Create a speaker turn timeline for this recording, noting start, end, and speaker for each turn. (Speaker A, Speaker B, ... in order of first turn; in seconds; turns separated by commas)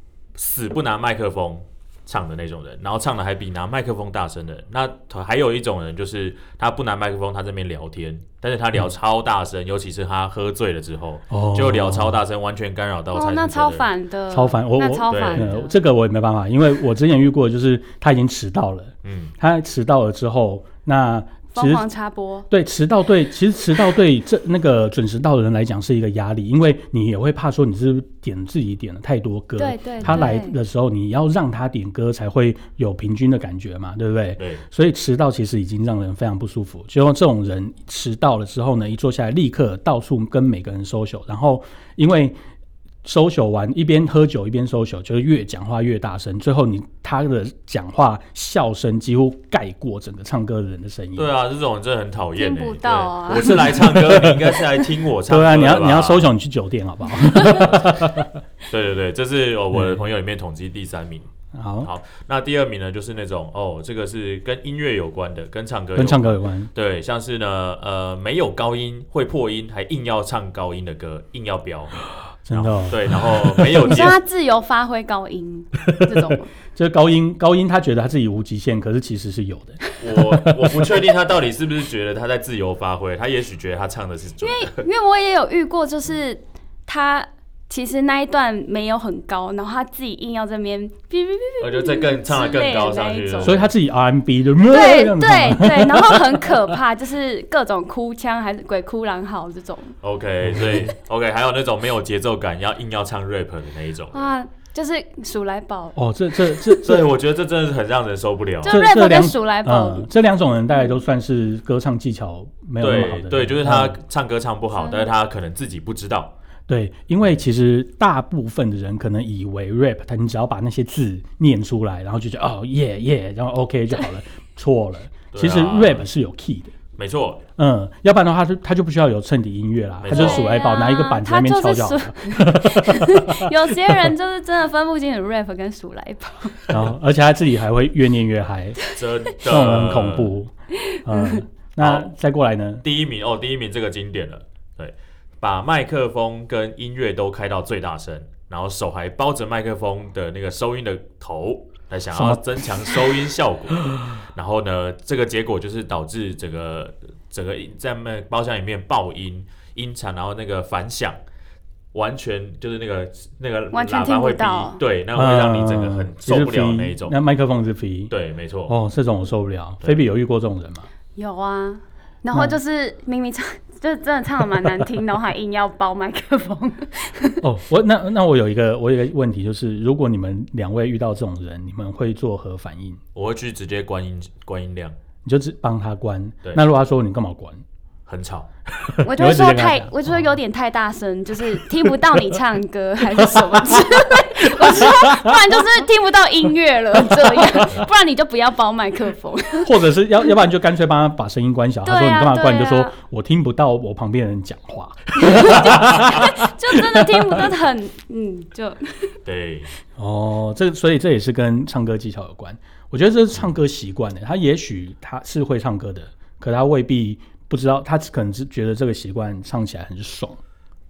Speaker A: 0.3-13.9, Speaker B: 11.3-12.2, Speaker C: 13.1-15.8, Speaker B: 14.3-21.8, Speaker A: 15.1-15.5, Speaker A: 19.0-19.3, Speaker C: 21.5-22.5, Speaker B: 22.5-42.4, Speaker C: 29.6-30.5, Speaker B: 43.0-51.3, Speaker A: 51.1-56.3, Speaker C: 52.4-53.7, Speaker B: 53.6-54.3, Speaker B: 55.3-58.3, Speaker A: 57.6-58.0, Speaker A: 58.7-61.3, Speaker B: 59.7-60.0, Speaker B: 61.5-61.9, Speaker A: 61.8-74.2, Speaker B: 66.0-66.7, Speaker B: 72.4-73.9, Speaker C: 73.8-76.5, Speaker B: 76.1-79.8, Speaker A: 80.0-84.8, Speaker C: 84.4-93.6, Speaker A: 91.6-93.7, Speaker B: 93.4-96.5, Speaker C: 94.6-99.9, Speaker A: 100.0-104.3, Speaker B: 100.4-100.9, Speaker C: 104.1-106.0, Speaker B: 105.9-107.0, Speaker C: 106.5-106.8, Speaker A: 106.8-108.8, Speaker C: 108.6-110.1, Speaker B: 108.7-114.0, Speaker A: 112.8-116.3, Speaker C: 114.7-115.1, Speaker B: 116.7-126.7, Speaker A: 125.3-126.1, Speaker A: 127.0-127.4, Speaker B: 127.6-133.7, Speaker A: 130.0-130.4, Speaker C: 130.1-136.7, Speaker B: 136.7-138.8, Speaker A: 138.9-140.3, Speaker B: 139.4-140.5, Speaker C: 140.9-141.4, Speaker B: 141.0-142.8, Speaker A: 141.8-142.1, Speaker A: 142.8-161.2, Speaker B: 152.1-152.4, Speaker A: 161.9-167.2, Speaker C: 163.7-164.8, Speaker B: 165.1-168.1, Speaker A: 168.1-168.7, Speaker B: 168.7-170.9, Speaker C: 171.2-177.4, Speaker B: 172.3-172.6, Speaker B: 177.4-183.0, Speaker A: 183.1-184.9, Speaker B: 185.2-187.6, Speaker A: 188.1-188.5, Speaker B: 188.8-190.3, Speaker C: 189.0-199.8, Speaker B: 191.7-192.3, Speaker B: 193.1-195.3, Speaker B: 197.2-197.6, Speaker B: 199.6-207.4, Speaker C: 201.8-202.9, Speaker C: 205.2-209.2, Speaker A: 209.2-209.7, Speaker B: 210.0-220.4